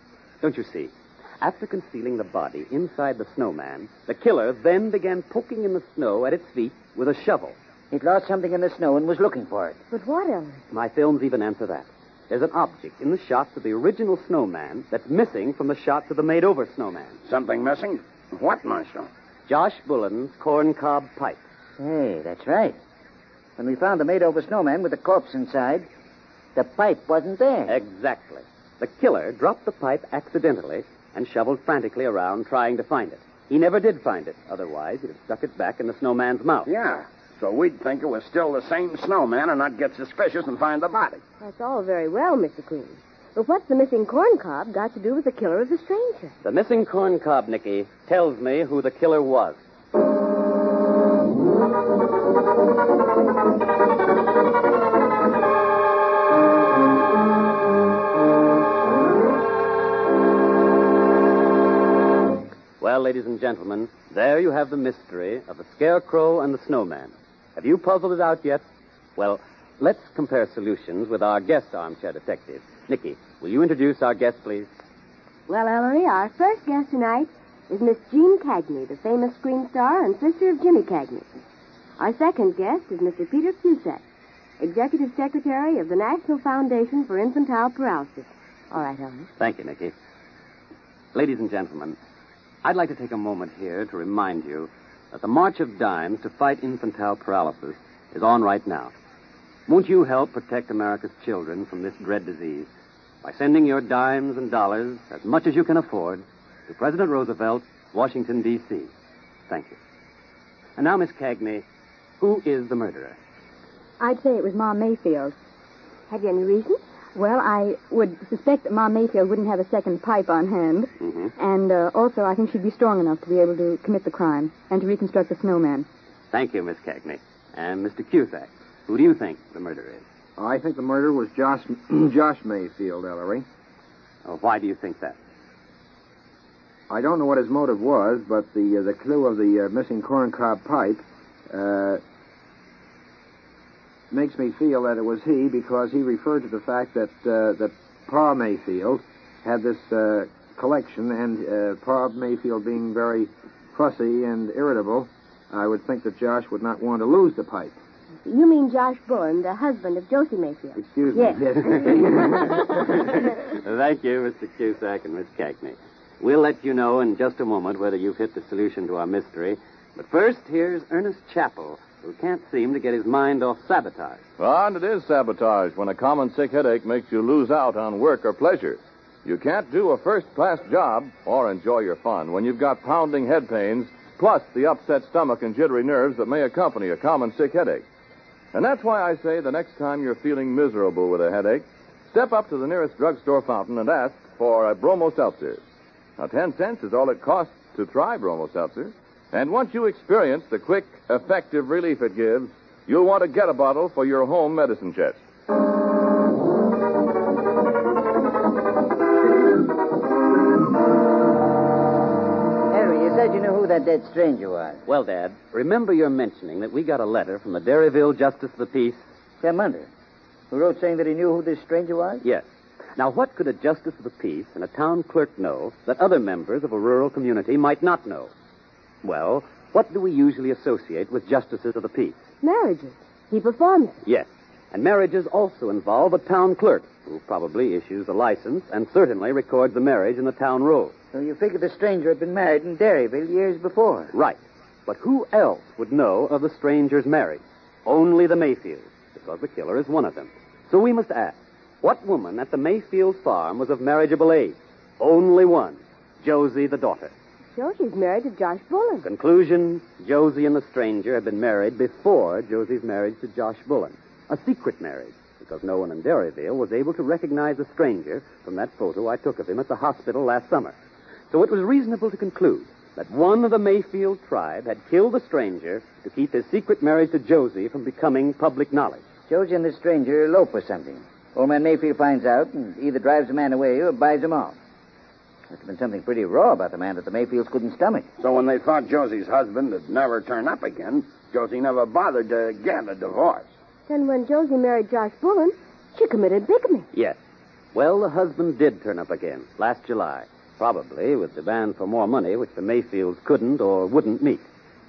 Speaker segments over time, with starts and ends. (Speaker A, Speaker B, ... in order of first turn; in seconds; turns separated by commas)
Speaker A: 0.4-7.5, Speaker B: 7.9-9.8, Speaker C: 9.9-10.6, Speaker A: 10.7-17.2, Speaker D: 17.2-19.1, Speaker A: 19.5-21.4, Speaker B: 21.8-22.8, Speaker B: 23.6-25.9, Speaker B: 26.5-27.7, Speaker A: 27.7-36.7, Speaker D: 36.7-41.2, Speaker C: 41.4-46.3, Speaker A: 46.4-49.6, Speaker A: 62.8-68.6, Speaker A: 69.2-74.7, Speaker C: 75.5-81.3, Speaker C: 82.0-84.0, Speaker C: 84.6-89.3, Speaker A: 89.4-89.9, Speaker A: 91.1-92.0, Speaker A: 92.6-98.9, Speaker A: 99.7-102.7, Speaker A: 103.2-108.9, Speaker A: 109.5-109.8, Speaker A: 110.8-111.6, Speaker A: 112.2-113.2, Speaker E: 114.0-115.3, Speaker C: 116.1-116.8, Speaker E: 117.1-125.9, Speaker A: 121.0-121.3, Speaker A: 126.3-130.0, Speaker F: 130.4-133.4, Speaker A: 134.2-135.2, Speaker F: 136.9-142.0, Speaker F: 144.1-157.7, Speaker C: 158.2-162.5, Speaker F: 160.8-162.0, Speaker A: 163.4-174.2, Speaker G: 174.4-187.8, Speaker G: 188.5-195.6, Speaker G: 196.2-205.2, Speaker B: 212.7-214.8, Speaker A: 214.9-219.1, Speaker B: 219.4-219.9, Speaker B: 220.5-222.2, Speaker A: 222.9-228.3, Speaker A: 229.0-232.2, Speaker C: 232.4-234.0, Speaker A: 234.0-240.9, Speaker B: 241.1-244.1, Speaker A: 244.1-257.1, Speaker C: 257.5-259.1, Speaker A: 259.0-270.8, Speaker A: 271.3-279.0, Speaker B: 279.3-284.6, Speaker B: 285.5-288.1, Speaker D: 288.2-293.5, Speaker C: 293.9-296.9, Speaker A: 296.9-297.2, Speaker A: 297.7-304.4